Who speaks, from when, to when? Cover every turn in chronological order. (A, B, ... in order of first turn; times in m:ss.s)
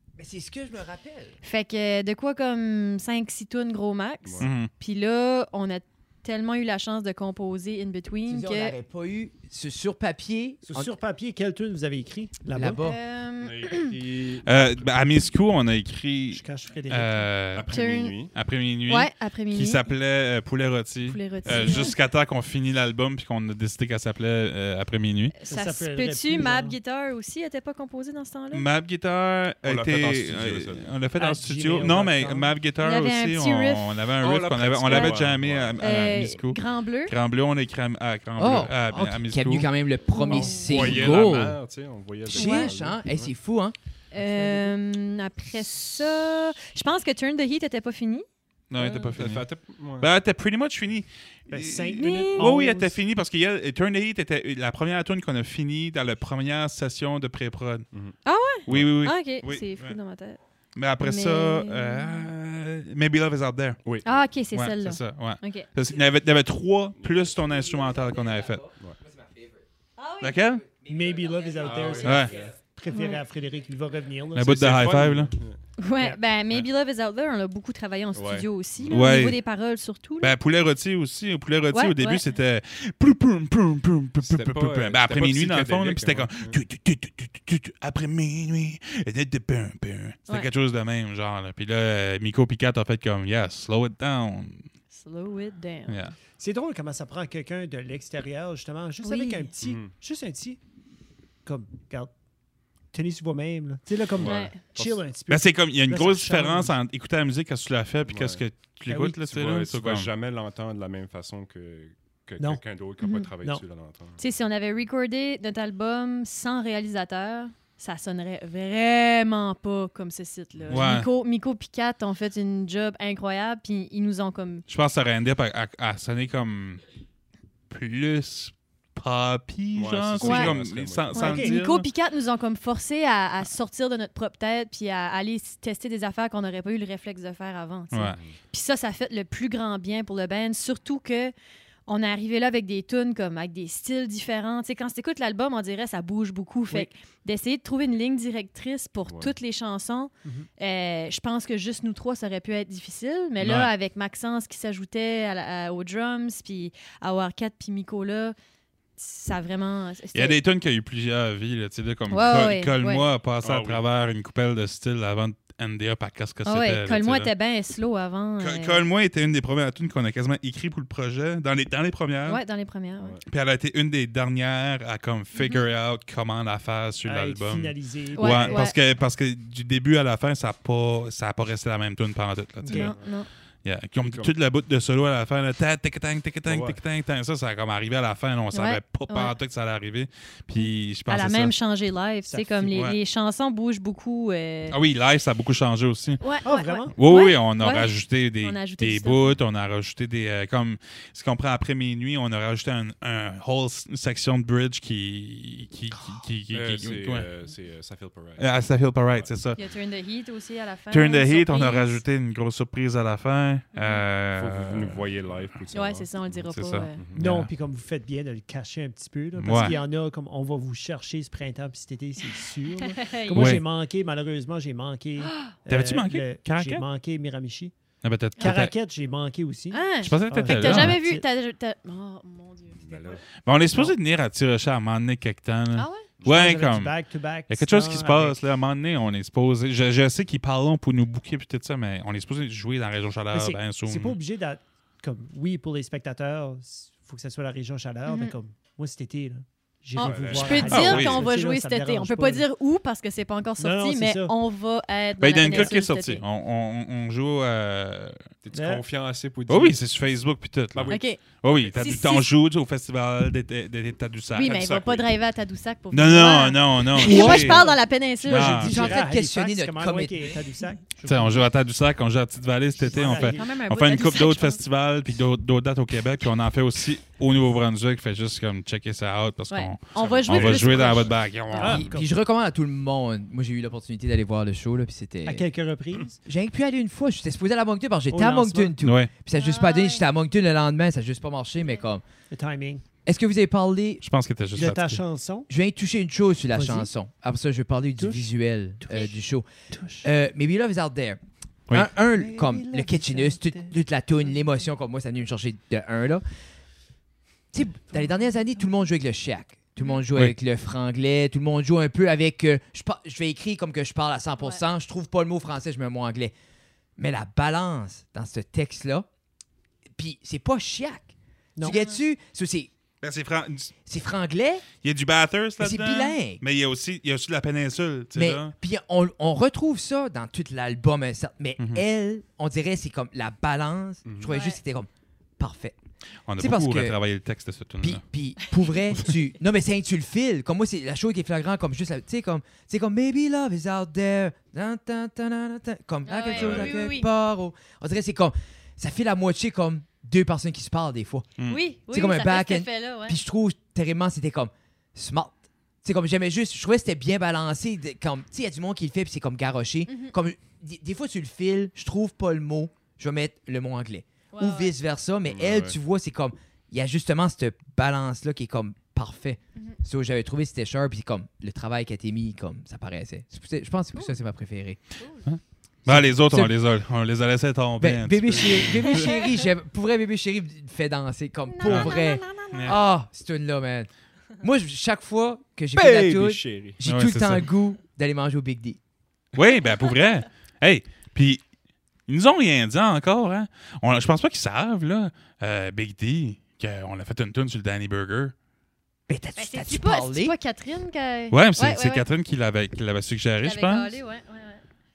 0:00.2-0:01.4 A
0:01.4-0:08.8 B
0:04.2-0:04.5 C
0:04.4-0:04.7 D
0:08.3-0:10.9 A
0:10.6-0:12.8 E
0:12.5-0:13.0 A
0:12.8-0:13.9 B
0:13.4-0:14.8 C
0:14.4-0:17.7 D
0:16.3-0:17.3 E
0:17.5-0:18.3 C
0:17.7-0:18.1 B
0:18.3-0:25.3 D
0:18.9-0:19.8 B
0:21.0-0:21.9 B
0:25.3-0:28.6 B
0:25.5-0:26.8 E
0:28.5-0:39.7 D
0:29.6-0:31.0 C
0:31.2-0:32.5 E
0:32.8-0:33.9 B
0:34.2-0:36.0 C
0:34.9-0:35.1 B
0:35.8-0:37.1 B
0:38.4-0:41.6 A
0:40.1-0:40.9 B
0:40.3-0:43.3 C
0:40.7-0:41.5 D
0:42.3-0:43.7 A
0:42.3-0:42.7 B
0:44.1-0:49.1 B
0:44.2-0:44.7 E
0:48.7-0:49.5 D
0:49.1-0:50.1 C
0:50.0-0:57.9 D
0:51.5-0:53.0 E
0:52.0-0:52.5 B
0:57.9-0:59.0 C
0:58.2-1:00.4 B
0:58.6-1:00.0 D
1:00.8-1:03.8 D
1:01.0-1:02.3 B
1:03.8-1:04.1 C
1:04.0-1:05.7 B
1:04.5-1:08.7 D
1:07.0-1:07.3 C
1:09.2-1:09.5 A
1:10.0-1:10.4 B
1:10.2-1:10.6 D
1:10.9-1:14.5 E
1:11.1-1:12.2 A
1:11.6-1:12.6 C
1:12.0-1:12.3 D
1:12.9-1:13.2 B
1:14.3-1:15.3 D
1:14.4-1:15.6 C
1:15.8-1:20.3 B
1:18.1-1:19.0 C
1:18.9-1:19.4 D
1:20.2-1:34.6 D
1:21.7-1:22.2 B
1:24.2-1:26.6 C
1:34.9-1:36.0 B
1:35.9-1:36.1 D
1:36.4-1:40.6 E
1:39.0-1:39.5 B
1:39.6-1:39.9 C
1:41.4-1:42.1 E
1:42.9-1:46.7 E
1:44.1-1:45.0 C
1:44.2-1:44.6 B
1:45.3-1:50.1 D
1:48.1-1:48.4 C
1:48.9-1:49.2 E
1:49.2-1:54.2 C
1:53.0-1:53.3 B
1:54.2-2:04.6 B
2:00.6-2:00.8 C
2:00.7-2:01.1 D
2:04.7-2:06.8 D
2:07.7-2:11.8 D
2:09.7-2:11.4 C
2:10.2-2:10.6 B
2:11.1-2:21.3 B
2:11.2-2:11.5 E
2:17.9-2:18.2 D
2:18.1-2:18.4 C
2:21.9-2:38.4 B
2:29.1-2:29.3 C
2:33.4-2:33.7 D
2:39.0-2:40.4 B
2:40.1-2:47.3 D
2:42.1-2:43.0 B
2:43.4-2:43.8 C
2:46.4-2:48.8 B
2:48.4-2:52.4 D
2:52.2-2:53.2 B
2:53.3-3:02.9 D
2:55.3-2:55.6 B
2:57.0-2:58.6 E
2:58.2-2:58.8 B
3:02.6-3:03.3 B
3:02.7-3:02.9 E
3:02.8-3:03.1 C
3:03.6-3:11.5 D
3:04.0-3:04.3 C
3:06.4-3:06.8 C
3:08.5-3:09.3 B
3:10.5-3:14.8 B
3:12.3-3:12.5 E
3:12.6-3:13.0 D
3:14.7-3:16.2 D
3:16.2-3:19.4 B
3:16.4-3:16.9 E
3:16.9-3:27.3 D
3:26.5-3:29.3 C
3:28.4-3:29.6 D
3:29.5-3:32.0 B
3:30.9-3:35.0 D
3:33.7-3:34.0 B
3:34.3-3:37.2 C
3:35.7-3:37.0 B
3:36.5-3:37.5 D
3:37.1-3:47.7 E
3:39.4-3:39.8 D
3:39.6-3:39.8 B
3:42.8-3:43.6 B
3:43.3-3:43.6 D
3:45.2-3:45.5 B
3:45.7-3:46.8 D
3:48.0-3:48.7 D
3:48.4-3:51.2 E
3:49.7-3:53.2 B
3:50.0-3:51.0 D
3:52.8-3:53.2 C
3:53.4-3:57.0 D
3:55.7-3:56.0 B
3:56.2-3:56.5 C
3:56.2-3:58.4 E
3:57.5-4:04.2 D
4:03.3-4:12.5 E
4:08.0-4:08.3 B
4:10.0-4:16.2 B
4:10.0-4:11.1 C
4:10.5-4:11.2 D
4:13.6-4:14.3 E
4:15.2-4:18.3 D
4:18.4-4:19.8 C
4:18.5-4:18.8 E
4:19.5-4:24.6 D
4:20.7-4:22.1 C
4:20.9-4:22.3 B
4:24.3-4:28.8 B
4:24.4-4:25.1 C
4:25.9-4:28.8 D
4:27.0-4:31.5 E
4:27.0-4:27.6 A
4:28.6-4:30.2 A
4:31.0-4:41.9 D
4:32.9-4:33.4 E
4:32.9-4:34.6 B
4:39.5-4:41.8 B
4:39.9-4:41.2 C
4:41.5-4:42.1 E
4:41.6-4:45.4 A
4:45.2-4:46.2 E
4:46.2-4:52.0 A
4:48.1-4:48.7 E
4:48.8-4:49.1 D
4:49.3-4:50.0 B
4:52.3-4:52.8 E
4:53.0-4:54.0 A
4:54.0-4:55.0 D
4:54.5-4:55.5 E
4:55.5-4:59.5 A
4:56.5-4:56.9 E
4:58.0-4:58.2 E
4:58.8-4:59.1 E
4:59.7-5:00.1 E
5:00.0-5:06.2 A
5:02.1-5:03.7 E
5:07.5-5:16.3 A
5:17.0-5:19.0 A
5:20.0-5:22.7 A
5:21.6-5:22.0 B
5:23.0-5:23.7 D
5:23.8-5:24.7 A
5:24.8-5:28.5 D
5:25.6-5:26.4 A
5:28.1-5:35.8 A
5:34.0-5:34.3 C
5:34.2-5:34.6 B
5:36.3-5:38.0 D
5:36.4-5:37.0 A
5:37.8-6:14.8 A
5:46.0-5:47.1 B
5:46.3-5:46.7 C
5:51.5-5:53.2 B
5:59.9-6:00.1 B
6:04.3-6:04.7 B
6:05.3-6:05.8 C
6:15.0-6:15.2 B
6:15.2-6:19.1 D
6:15.8-6:16.6 A
6:17.8-6:28.8 A
6:18.9-6:19.4 B
6:21.5-6:22.8 B
6:21.6-6:21.9 D
6:25.7-6:26.8 C
6:26.8-6:27.5 D
6:29.4-6:31.4 D
6:29.7-6:30.2 B
6:32.1-6:38.3 D
6:39.1-6:40.3 A
6:39.4-6:42.0 B
6:41.3-6:43.9 D
6:43.4-6:44.6 B